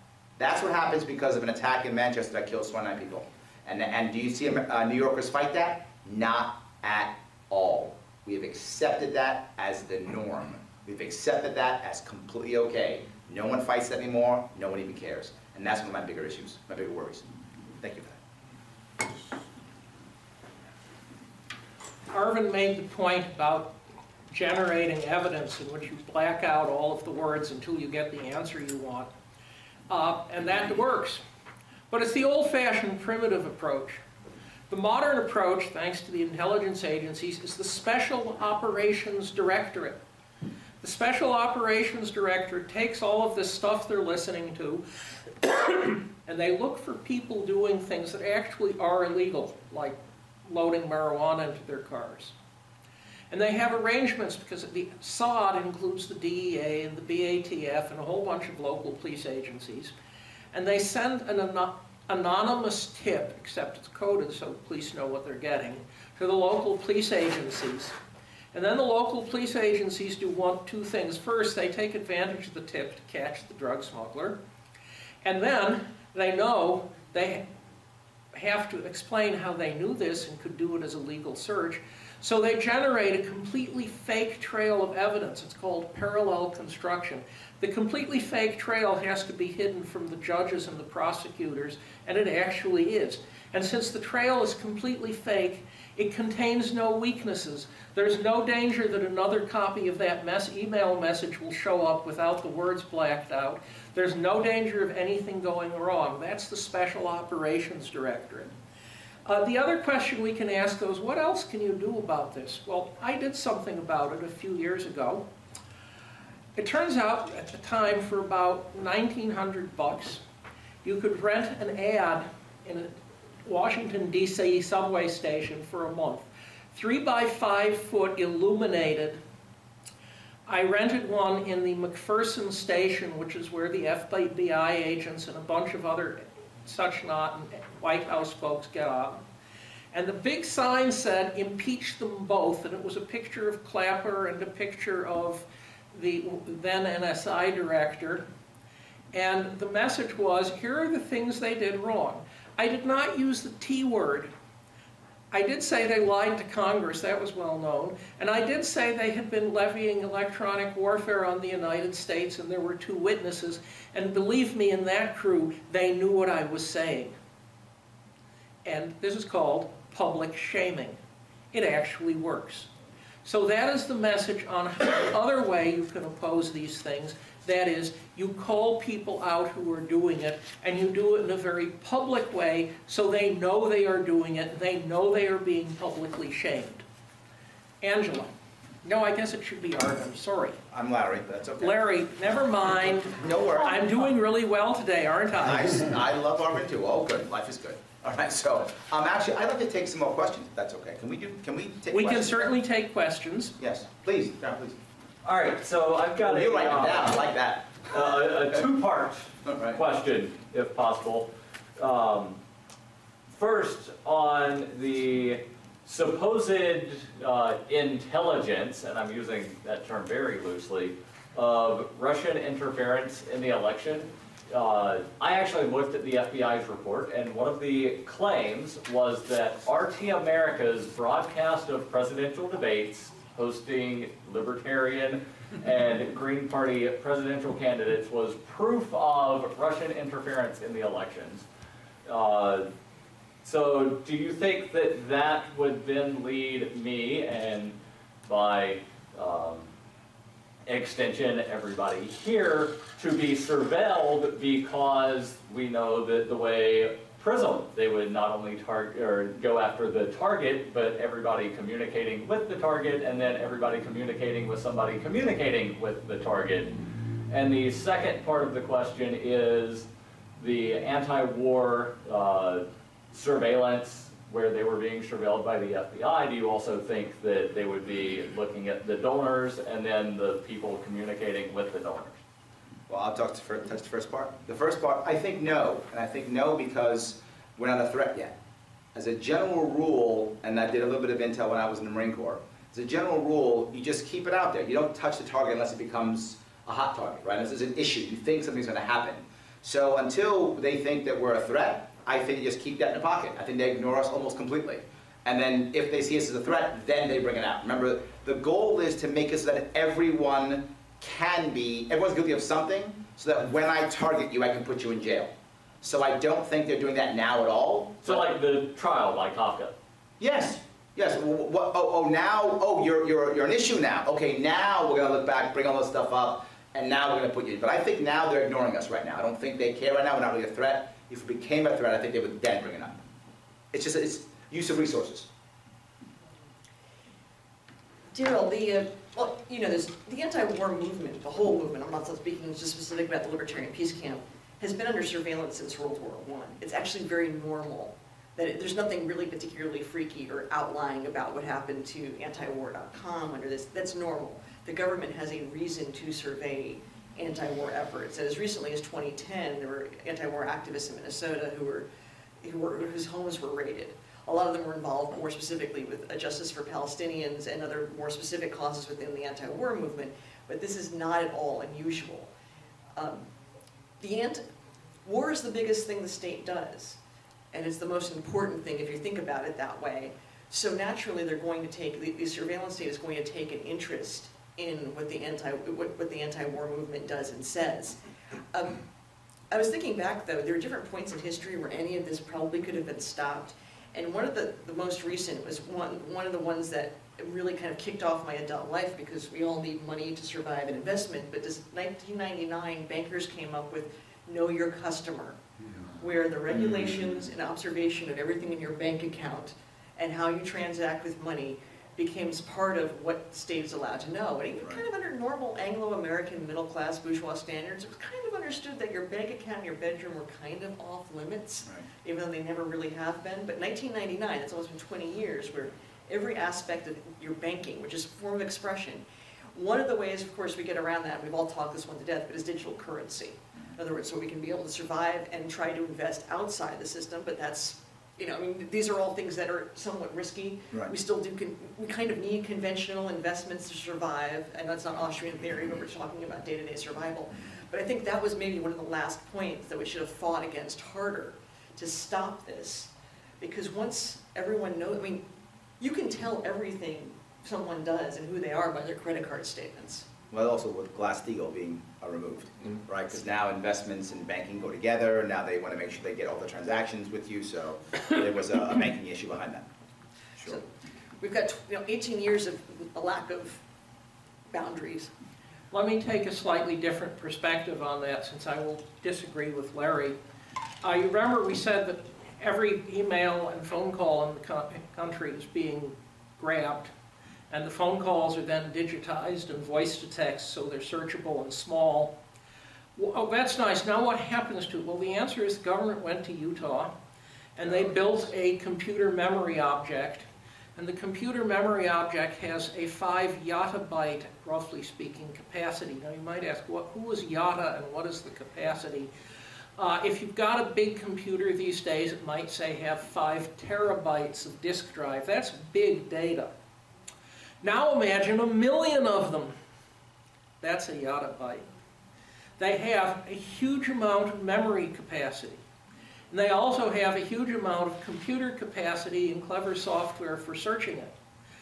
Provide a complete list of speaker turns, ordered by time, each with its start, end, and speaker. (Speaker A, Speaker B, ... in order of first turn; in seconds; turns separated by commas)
Speaker A: 0.4-17.3, Speaker A: 17.8-18.2, Speaker B: 22.1-23.8, Speaker B: 24.3-29.1, Speaker B: 29.9-31.2, Speaker B: 31.9-34.0, Speaker B: 34.7-40.0, Speaker B: 40.8-44.8, Speaker B: 45.4-52.4, Speaker B: 53.3-59.9, Speaker B: 60.5-68.0, Speaker B: 68.5-74.4, Speaker B: 75.2-77.4, Speaker B: 78.3-108.5, Speaker B: 109.3-115.3, Speaker B: 116.6-120.2, Speaker B: 120.8-122.9, Speaker B: 123.4-129.2, Speaker B: 130.5-139.2, Speaker B: 139.9-148.2, Speaker B: 149.1-154.3, Speaker B: 155.3-167.1, Speaker B: 168.6-171.0, Speaker B: 171.5-172.7, Speaker B: 173.2-186.8, Speaker B: 187.8-188.3, Speaker B: 188.8-190.6, Speaker A: 190.7-191.8, Speaker B: 191.6-195.9, Speaker A: 193.1-194.1, Speaker A: 195.4-202.5, Speaker B: 201.9-203.6, Speaker A: 203.6-204.8, Speaker C: 205.2-207.2, Speaker A: 206.2-207.9, Speaker C: 207.9-212.4, Speaker A: 209.4-209.8, Speaker C: 213.3-241.4, Speaker C: 242.1-242.7, Speaker C: 243.4-249.7, Speaker C: 250.7-266.8, Speaker C: 267.3-282.2, Speaker A: 282.9-288.3, Speaker A: 288.9-318.3, Speaker C: 318.0-319.7, Speaker A: 320.2-333.0, Speaker A: 333.7-335.3, Speaker D: 338.1-361.9, Speaker D: 362.4-372.3, Speaker D: 372.9-373.3, Speaker D: 374.0-374.4, Speaker D: 375.1-377.0, Speaker D: 377.5-388.0, Speaker D: 388.5-388.8, Speaker D: 389.5-405.4, Speaker D: 406.0-429.0, Speaker A: 406.5-407.0, Speaker D: 429.5-455.2, Speaker D: 455.8-460.1, Speaker A: 460.3-469.6, Speaker A: 470.4-470.6, Speaker D: 471.2-473.6, Speaker D: 474.5-475.1, Speaker B: 475.7-480.2, Speaker B: 480.8-486.9, Speaker B: 487.5-492.2, Speaker B: 492.9-496.9, Speaker B: 497.6-509.1, Speaker B: 509.8-516.5, Speaker B: 517.6-519.5, Speaker B: 520.6-521.6, Speaker B: 522.6-525.6, Speaker B: 526.3-531.1